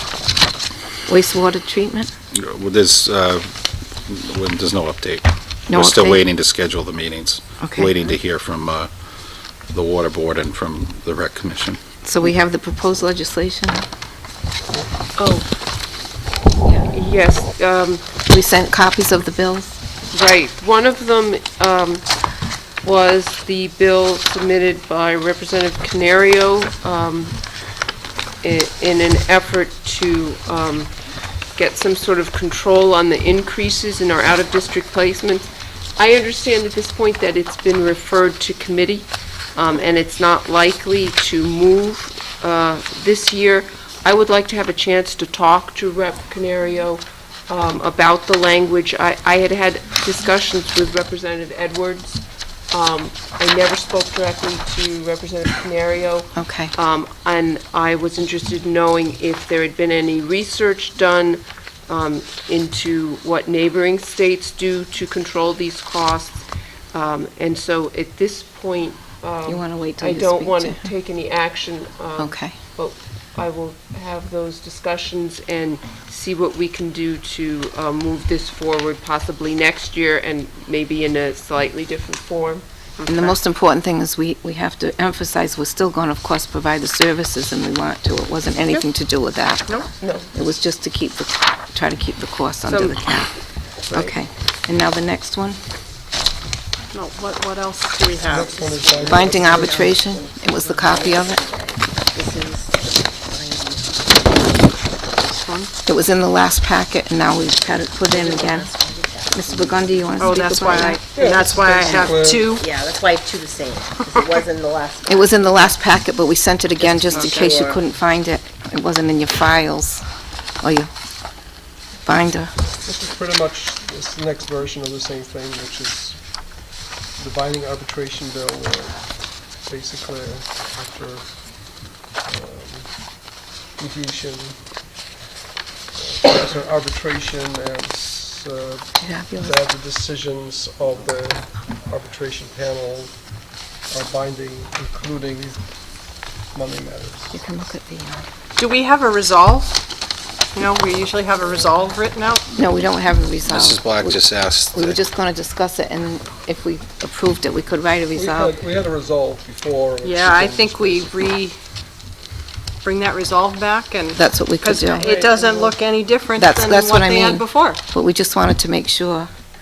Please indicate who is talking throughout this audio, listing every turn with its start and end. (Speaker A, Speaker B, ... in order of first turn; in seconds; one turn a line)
Speaker A: 1.1-2.1
Speaker B: 2.3-3.5
Speaker B: 4.0-8.9
Speaker A: 5.7-6.2
Speaker A: 7.6-7.9
Speaker B: 9.7-11.8
Speaker A: 12.0-13.8
Speaker C: 15.2-15.5
Speaker C: 16.8-18.0
Speaker A: 18.3-19.8
Speaker C: 20.1-22.0
Speaker C: 22.8-27.4
Speaker C: 28.4-30.9
Speaker C: 31.6-52.2
Speaker C: 52.7-66.4
Speaker A: 56.3-56.7
Speaker C: 66.9-82.6
Speaker A: 69.5-70.9
Speaker A: 72.2-72.5
Speaker D: 83.0-83.3
Speaker A: 83.1-93.3
Speaker C: 90.0-90.3
Speaker C: 92.7-93.3
Speaker A: 93.9-95.6
Speaker D: 96.9-98.8
Speaker E: 98.2-100.0
Speaker F: 98.5-104.7
Speaker A: 99.0-101.5
Speaker D: 105.2-105.7
Speaker A: 105.8-111.0
Speaker F: 108.1-110.0
Speaker D: 110.2-112.7
Speaker E: 111.1-112.5
Speaker F: 112.5-115.4
Speaker A: 115.0-120.0
Speaker F: 117.1-117.8
Speaker D: 117.1-117.5
Speaker A: 120.6-120.9
Speaker A: 122.0-122.5
Speaker E: 122.8-134.8
Speaker E: 135.9-147.3
Speaker A: 139.0-139.5
Speaker A: 147.3-148.2
Speaker D: 148.6-149.8
Speaker D: 150.5-152.4
Speaker A: 152.5-154.2
Speaker B: 153.5-155.0
Speaker A: 154.7-158.5
Speaker E: 158.1-161.3
Speaker D: 160.0-161.6
Speaker D: 162.8-167.8
Speaker A: 164.1-165.1
Speaker C: 165.0-165.7
Speaker A: 166.3-169.3